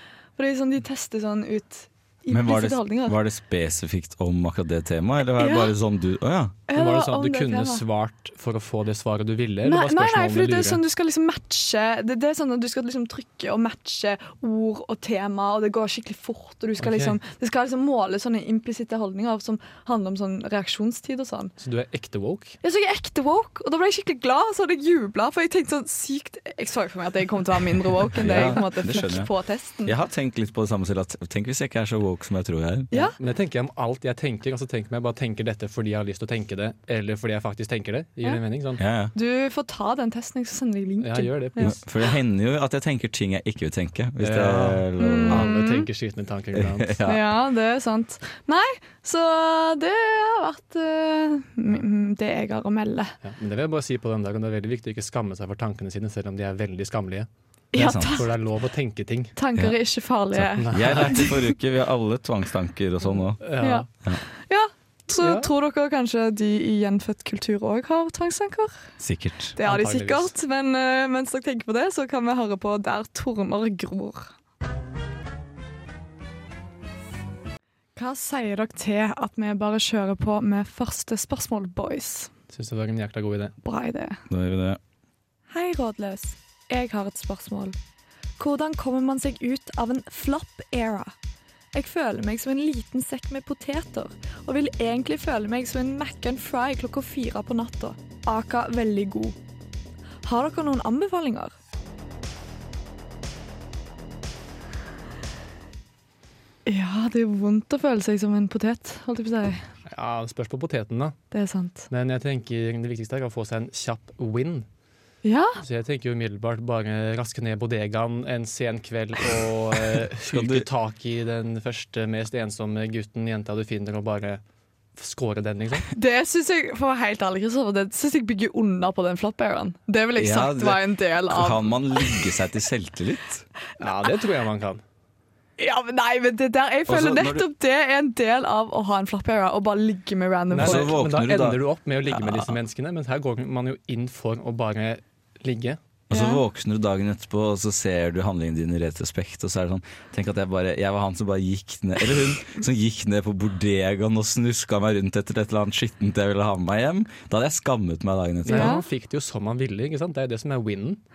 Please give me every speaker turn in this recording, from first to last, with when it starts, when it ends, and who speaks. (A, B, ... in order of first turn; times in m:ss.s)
0:00.4-0:03.2 A
0:02.3-0:06.6 B
0:05.3-0:05.7 A
0:06.7-0:07.8 A
0:06.7-0:10.8 C
0:09.6-0:21.5 A
0:16.8-0:17.2 C
0:21.6-0:22.6 C
0:22.6-0:29.9 A
0:28.2-0:29.3 B
0:29.8-0:32.9 B
0:33.0-0:38.8 C
0:38.8-0:39.1 B
0:39.1-0:41.8 A
0:41.0-0:41.7 C
0:41.6-0:45.5 B
0:44.2-0:46.9 C
0:45.0-0:45.9 A
0:46.5-0:47.3 B
0:47.0-0:53.1 A
0:53.2-0:57.3 C
0:57.7-0:58.3 A
0:57.7-0:58.2 B
0:57.8-0:59.3 C
0:59.4-1:01.3 A
1:00.3-1:03.4 B
1:00.6-1:01.4 C
1:03.4-1:03.9 C
1:03.6-1:03.8 A
1:04.5-1:08.8 A
1:05.2-1:05.5 C
1:09.0-1:09.5 B
1:09.6-1:14.3 A
1:09.6-1:10.3 C
1:18.0-1:22.3 A
1:22.5-1:23.5 C
1:23.6-1:24.2 A
1:24.3-1:24.8 B
1:25.5-1:27.8 A
1:28.4-1:31.1 A
1:31.7-1:39.4 A
1:40.2-1:41.5 A
1:46.6-1:49.6 A
1:49.9-1:51.2 C
1:51.3-1:51.9 A
1:51.9-1:54.6 C
1:55.2-1:55.6 A
1:55.6-2:04.4 C
2:00.3-2:00.7 B
2:05.0-2:05.9 C
2:05.9-2:12.2 A
2:10.2-2:13.4 B
2:13.8-2:14.8 C
2:15.6-2:20.9 A
2:16.9-2:17.5 B
2:20.5-2:25.8 C
2:20.6-2:21.6 B
2:22.2-2:22.4 B
2:26.1-2:26.4 A
2:26.1-2:38.8 B
2:38.4-2:41.0 C
2:38.5-2:38.8 A